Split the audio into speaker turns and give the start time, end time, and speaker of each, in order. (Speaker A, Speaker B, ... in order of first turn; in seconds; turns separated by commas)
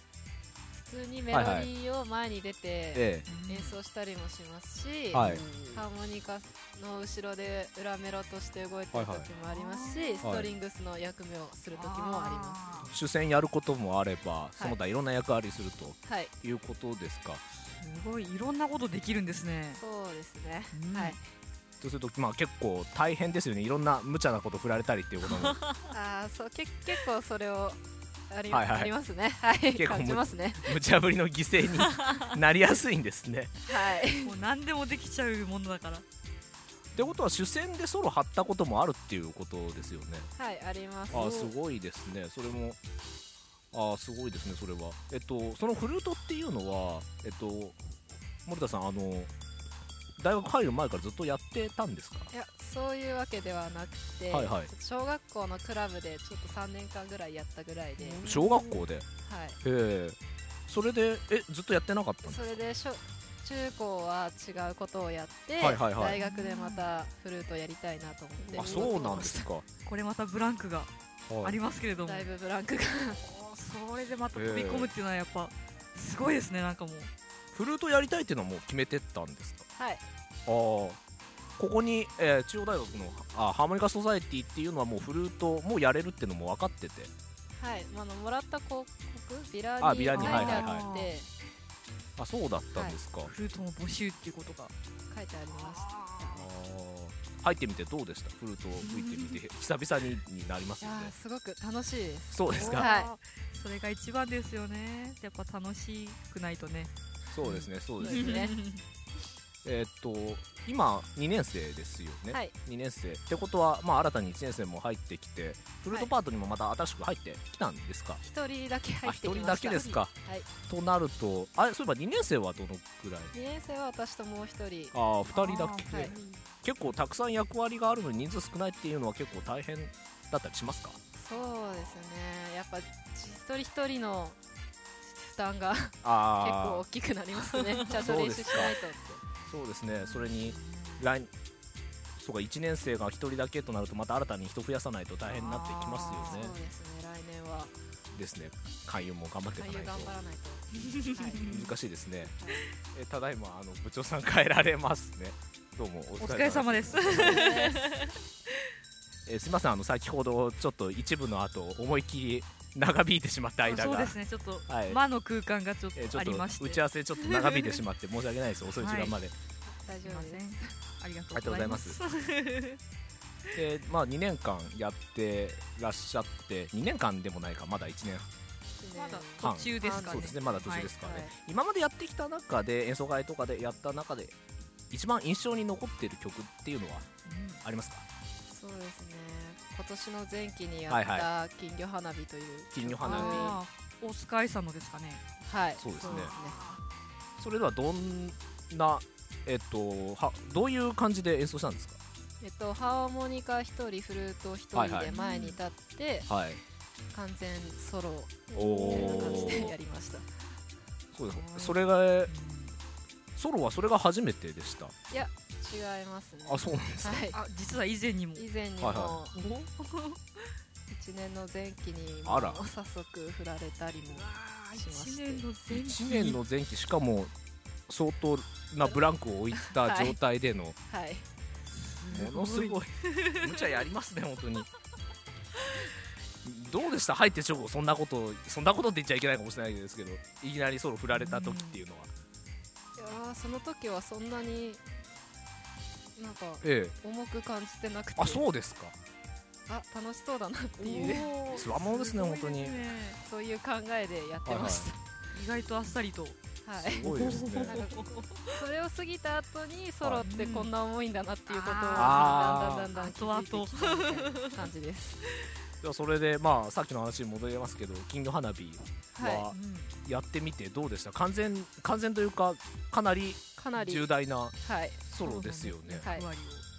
Speaker A: 0.7-12.6, Speaker B: 1.3-1.7, Speaker B: 2.9-3.3, Speaker C: 3.3-3.8, Speaker B: 5.1-5.5, Speaker C: 5.3-5.7, Speaker B: 8.9-9.3, Speaker C: 9.5-10.3, Speaker B: 10.2-10.5, Speaker C: 11.7-12.9, Speaker B: 12.8-17.4, Speaker A: 16.1-16.3, Speaker C: 17.8-19.8, Speaker A: 19.8-21.2, Speaker C: 20.7-21.2, Speaker B: 21.8-25.6, Speaker C: 25.2-25.9, Speaker A: 25.9-30.8, Speaker B: 28.5-28.9, Speaker B: 29.7-33.5, Speaker C: 31.8-32.2, Speaker A: 33.6-34.3, Speaker C: 34.2-36.0, Speaker B: 37.0-40.3, Speaker A: 40.4-41.5, Speaker B: 41.1-42.8, Speaker B: 43.7-47.8, Speaker B: 48.5-49.3, Speaker B: 50.2-52.3, Speaker A: 52.3-58.2, Speaker B: 54.3-54.7, Speaker C: 58.0-58.8, Speaker B: 58.2-59.1, Speaker A: 59.2-59.6, Speaker B: 59.6-62.6, Speaker A: 62.2-69.5, Speaker B: 65.6-66.2, Speaker C: 65.6-66.9, Speaker C: 68.5-69.2, Speaker B: 68.5-69.7, Speaker C: 69.8-70.9, Speaker B: 71.3-71.6, Speaker C: 71.4-72.3, Speaker A: 72.0-73.2, Speaker C: 73.1-77.1, Speaker B: 74.3-74.9, Speaker B: 77.5-79.7, Speaker A: 79.8-80.0, Speaker B: 80.5-81.0, Speaker B: 81.6-87.1, Speaker A: 87.5-91.3, Speaker B: 89.8-90.9, Speaker C: 90.1-91.1, Speaker B: 92.2-93.3, Speaker C: 93.2-94.7, Speaker A: 95.1-96.5, Speaker C: 95.6-96.3, Speaker B: 96.3-101.1, Speaker C: 98.8-99.4, Speaker A: 100.8-103.1, Speaker B: 102.3-102.9, Speaker C: 102.5-106.9, Speaker B: 107.3-108.5, Speaker C: 107.4-108.8, Speaker A: 108.0-108.6, Speaker B: 109.6-118.2, Speaker A: 112.3-112.5, Speaker A: 118.2-120.5, Speaker B: 119.0-120.1, Speaker B: 120.7-123.3, Speaker A: 123.3-124.9, Speaker B: 124.9-131.0, Speaker C: 125.3-126.4, Speaker A: 125.9-126.1, Speaker A: 131.2-134.4, Speaker C: 131.3-131.9, Speaker A: 135.0-139.2, Speaker B: 136.0-136.8, Speaker B: 137.9-138.8, Speaker B: 139.5-141.3, Speaker C: 140.0-141.1, Speaker B: 142.2-146.5, Speaker C: 145.3-146.5, Speaker A: 146.2-147.8, Speaker B: 148.1-150.2, Speaker A: 149.6-151.6, Speaker C: 151.1-151.7, Speaker B: 151.4-152.3, Speaker A: 152.2-152.7, Speaker B: 152.9-157.5, Speaker C: 156.2-158.2, Speaker A: 157.1-157.9, Speaker B: 159.3-164.2, Speaker C: 163.6-167.8, Speaker B: 164.7-165.0, Speaker B: 165.9-169.3, Speaker C: 168.7-169.2, Speaker A: 169.7-170.7, Speaker C: 170.0-172.8, Speaker B: 171.3-172.0, Speaker B: 173.5-178.3, Speaker A: 178.8-181.3, Speaker C: 178.9-180.9, Speaker B: 179.4-184.4, Speaker B: 184.9-187.1, Speaker C: 187.3-187.6, Speaker B: 187.6-188.1, Speaker A: 188.5-193.6, Speaker B: 190.9-191.3, Speaker B: 192.7-193.6, Speaker C: 193.0-195.2, Speaker A: 195.4-196.6, Speaker B: 195.8-196.3, Speaker C: 196.0-196.8, Speaker B: 197.4-202.0, Speaker A: 202.4-206.3, Speaker B: 204.7-205.1, Speaker C: 205.1-205.6, Speaker B: 206.3-206.6, Speaker A: 207.1-210.3, Speaker C: 208.6-209.8, Speaker B: 208.6-209.7, Speaker B: 211.1-212.3, Speaker C: 211.3-212.8, Speaker B: 213.4-214.9, Speaker A: 215.1-217.4, Speaker B: 216.4-217.2, Speaker C: 217.3-218.5, Speaker A: 218.4-219.3, Speaker B: 218.8-219.2, Speaker C: 219.3-220.4, Speaker A: 220.9-225.5, Speaker B: 222.2-222.6, Speaker C: 224.1-226.4, Speaker B: 225.7-227.3, Speaker B: 227.9-230.8, Speaker A: 229.6-230.2, Speaker A: 230.9-231.2, Speaker C: 231.8-233.8, Speaker B: 232.1-234.7, Speaker B: 236.4-242.1, Speaker C: 241.1-241.8, Speaker A: 243.0-244.8, Speaker A: 246.2-248.5, Speaker B: 246.6-247.0, Speaker B: 248.2-249.0, Speaker A: 249.7-251.3, Speaker C: 250.8-253.2, Speaker B: 251.6-252.8, Speaker A: 253.2-255.0, Speaker B: 254.4-254.9, Speaker C: 255.3-256.4, Speaker A: 256.6-265.2, Speaker B: 256.8-257.8, Speaker C: 257.0-258.6, Speaker B: 260.0-260.3, Speaker C: 260.2-260.7, Speaker C: 261.5-264.7, Speaker B: 261.9-262.9, Speaker B: 265.8-276.1, Speaker A: 269.1-269.5, Speaker C: 269.5-269.9, Speaker A: 273.6-274.1, Speaker A: 274.6-275.1, Speaker C: 275.2-276.6, Speaker A: 276.0-276.3